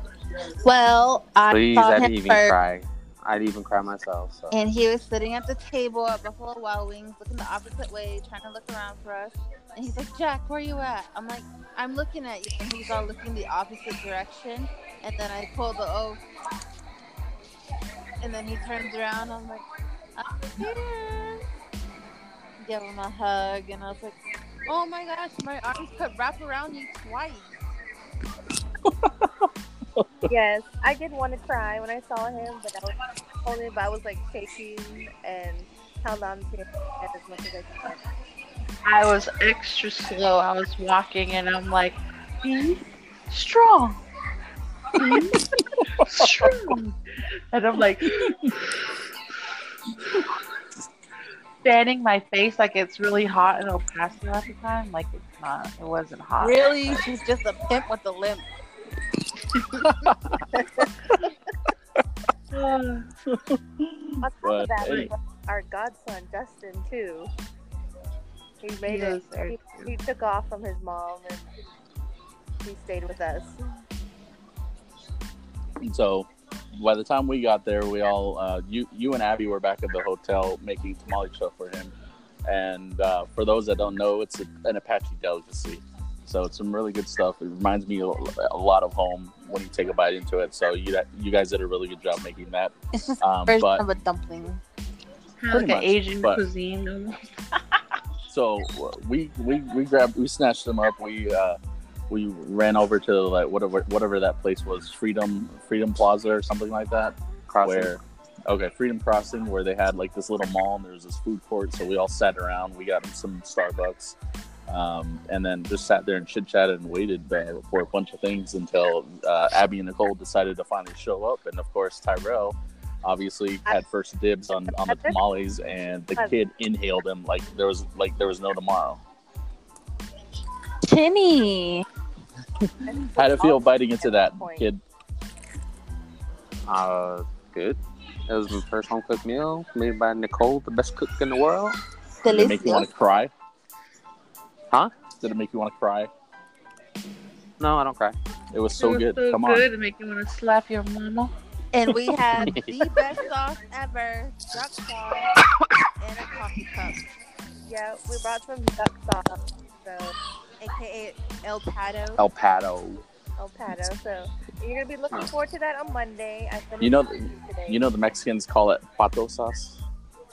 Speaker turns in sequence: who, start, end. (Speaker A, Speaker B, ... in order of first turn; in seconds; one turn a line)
Speaker A: 0.6-2.5
Speaker B: 1.5-4.5
Speaker A: 4.5-16.2
Speaker A: 18.2-19.6
Speaker A: 20.2-21.4
Speaker A: 22.6-27.6
Speaker C: 28.8-30.1
Speaker D: 30.3-38.0
Speaker E: 38.8-44.0
Speaker E: 45.0-45.4
Speaker C: 45.0-46.8
Speaker E: 46.0-47.0
Speaker E: 47.5-48.8
Speaker C: 48.0-48.5
Speaker E: 51.6-56.7
Speaker A: 56.4-58.5
Speaker C: 59.8-60.4
Speaker E: 62.5-63.1
Speaker C: 63.3-65.1
Speaker D: 64.2-67.3
Speaker E: 64.8-65.1
Speaker D: 68.6-71.5
Speaker E: 68.8-69.9
Speaker D: 72.6-73.6
Speaker C: 75.8-81.9
Speaker C: 82.4-93.8
Speaker A: 93.0-94.6
Speaker E: 95.4-97.6
Speaker C: 95.5-96.4
Speaker C: 98.3-101.6
Speaker C: 102.1-114.2
Speaker B: 107.5-108.0
Speaker C: 114.7-129.0
Speaker D: 124.7-125.2
Speaker A: 130.8-131.8
Speaker D: 132.8-134.7
Speaker C: 133.1-134.8
Speaker B: 136.7-141.8
Speaker A: 142.2-142.9
Speaker C: 142.3-143.3
Speaker C: 145.2-146.1
Speaker B: 147.6-148.2
Speaker C: 148.5-149.7
Speaker E: 148.8-151.3
Speaker A: 151.7-155.3
Speaker B: 152.4-152.8
Speaker A: 156.0-157.0
Speaker D: 157.7-160.1
Speaker A: 160.6-162.2
Speaker B: 162.2-163.0
Speaker D: 163.4-167.8
Speaker C: 166.8-169.8